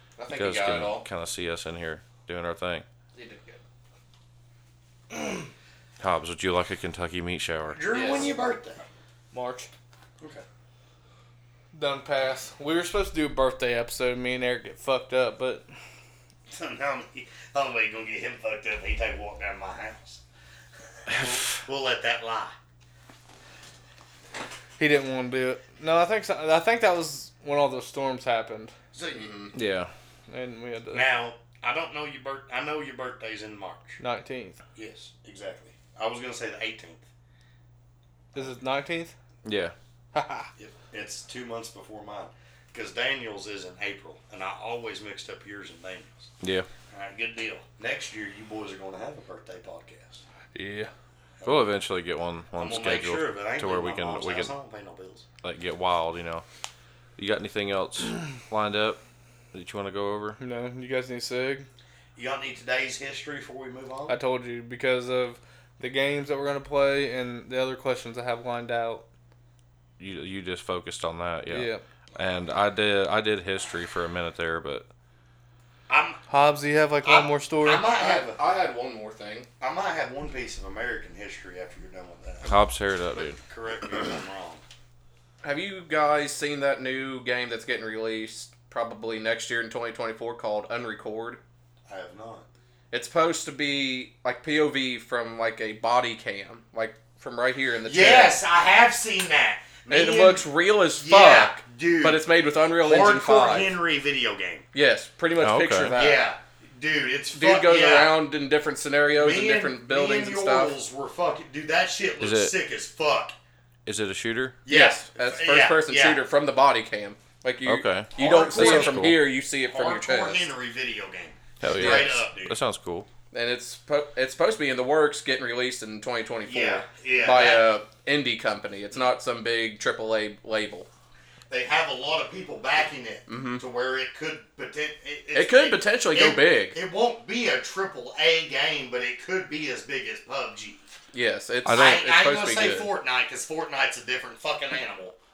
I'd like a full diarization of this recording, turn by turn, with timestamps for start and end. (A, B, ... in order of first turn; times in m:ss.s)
0:00.2-0:01.0 A
0:00.3-0:02.8 B
0:03.1-0:03.6 A
0:06.0-0:07.8 B
0:07.7-0:08.8 C
0:07.9-0:08.3 A
0:09.3-0:09.7 D
0:10.2-0:10.4 C
0:11.7-0:15.6 D
0:16.5-0:20.2 C
0:21.1-0:21.6 B
0:21.1-0:22.5 C
0:24.8-0:28.7 D
0:28.9-0:29.4 C
0:29.1-0:29.5 A
0:29.5-0:29.9 B
0:30.3-0:31.0 D
0:30.9-0:34.0 C
0:34.0-0:34.6 D
0:34.8-0:37.0 C
0:38.3-0:39.1 D
0:39.4-0:39.7 B
0:40.1-0:40.5 D
0:40.6-0:46.3 C
0:46.4-0:46.7 B
0:46.9-0:50.2 C
0:50.5-0:50.9 D
0:51.4-0:51.7 C
0:51.4-0:54.5 B
0:52.6-0:55.2 C
0:55.4-0:56.4 B
0:57.2-0:59.0 B
0:59.5-1:00.4 B
1:00.4-1:01.7 D
1:02.2-1:04.1 C
1:04.1-1:09.0 D
1:10.0-1:14.9 B
1:11.5-1:11.8 D
1:15.9-1:16.2 C
1:16.3-1:17.8 D
1:17.0-1:18.4 C
1:17.9-1:19.5 A
1:19.6-1:22.5 C
1:22.4-1:23.4 B
1:23.2-1:24.6 C
1:25.4-1:31.4 A
1:31.9-1:32.5 C
1:32.9-1:38.4 A
1:37.8-1:42.2 C
1:39.9-1:43.8 A
1:42.8-1:44.6 C
1:44.7-1:46.3 A
1:45.4-1:46.0 B
1:45.9-1:48.3 C
1:47.3-1:50.7 A
1:49.1-1:53.3 C
1:52.2-1:52.5 B
1:53.8-1:54.6 B
1:54.6-1:56.2 C
1:54.7-2:00.4 A
1:57.6-1:59.2 B
1:58.1-1:59.1 C
1:59.6-2:02.6 C
2:01.6-2:03.1 B
2:01.7-2:02.2 A
2:03.3-2:10.9 A
2:06.4-2:07.7 C
2:11.5-2:20.9 C
2:13.3-2:13.6 A
2:15.3-2:16.8 A
2:21.1-2:22.9 A
2:21.6-2:22.0 B
2:21.7-2:25.2 C